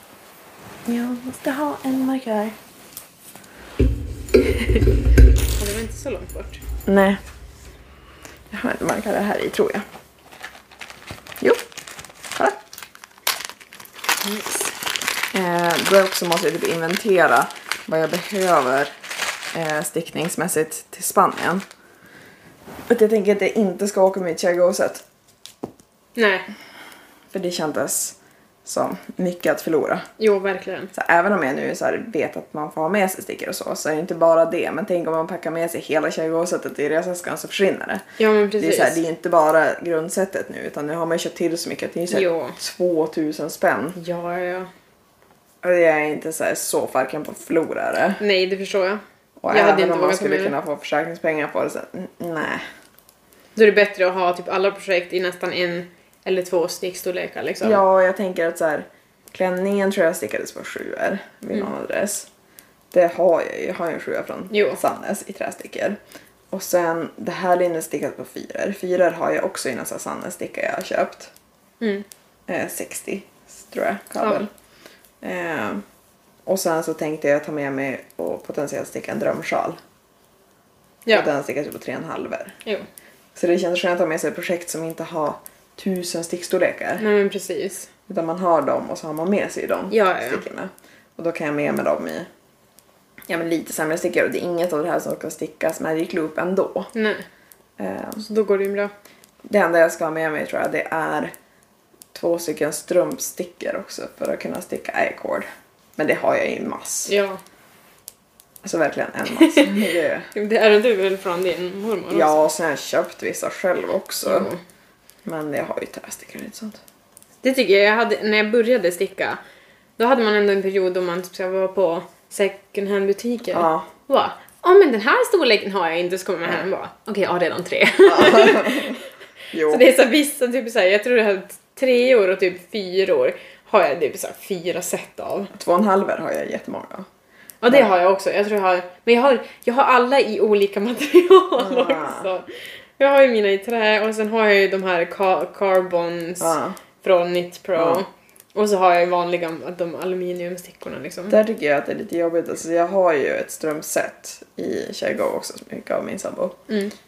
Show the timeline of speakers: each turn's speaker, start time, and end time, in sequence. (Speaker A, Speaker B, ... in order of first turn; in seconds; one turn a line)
Speaker A: 0.9-2.6
Speaker B: 5.6-6.6
Speaker A: 6.9-7.2
Speaker A: 8.5-9.8
Speaker B: 14.2-14.7
Speaker A: 15.3-18.9
Speaker A: 19.5-21.6
Speaker A: 22.9-25.0
Speaker B: 26.2-26.5
Speaker A: 27.3-30.1
Speaker B: 30.2-30.9
Speaker A: 30.9-38.0
Speaker B: 38.2-39.0
Speaker A: 38.6-44.0
Speaker B: 42.1-42.6
Speaker B: 44.0-44.7
Speaker A: 45.6-48.2
Speaker B: 48.2-50.5
Speaker A: 49.4-52.6
Speaker B: 53.6-57.8
Speaker A: 57.6-62.3
Speaker A: 62.9-66.0
Speaker B: 64.5-64.8
Speaker A: 66.5-71.3
Speaker B: 71.8-72.1
Speaker A: 72.5-74.5
Speaker A: 75.2-75.8
Speaker A: 76.5-79.8
Speaker A: 81.1-82.6
Speaker A: 83.3-87.1
Speaker B: 87.0-87.9
Speaker A: 88.1-92.3
Speaker B: 89.9-90.4
Speaker A: 93.3-96.9
Speaker B: 96.9-97.2
Speaker A: 97.8-98.2
Speaker B: 98.2-98.9
Speaker A: 99.5-101.3
Speaker A: 102.1-107.1
Speaker B: 107.1-107.4
Speaker A: 108.6-110.3
Speaker B: 109.3-112.4
Speaker A: 112.1-114.5
Speaker B: 114.2-114.6
Speaker A: 115.2-116.8
Speaker B: 117.4-119.4
Speaker B: 120.0-129.0
Speaker A: 123.5-123.9
Speaker A: 128.1-129.0
Speaker A: 129.5-129.9
Speaker B: 129.7-135.5
Speaker A: 135.5-137.1
Speaker B: 137.6-142.5
Speaker A: 141.6-142.3
Speaker B: 143.0-151.4
Speaker A: 146.4-146.8
Speaker A: 147.8-148.0
Speaker A: 151.3-156.6
Speaker B: 156.7-156.9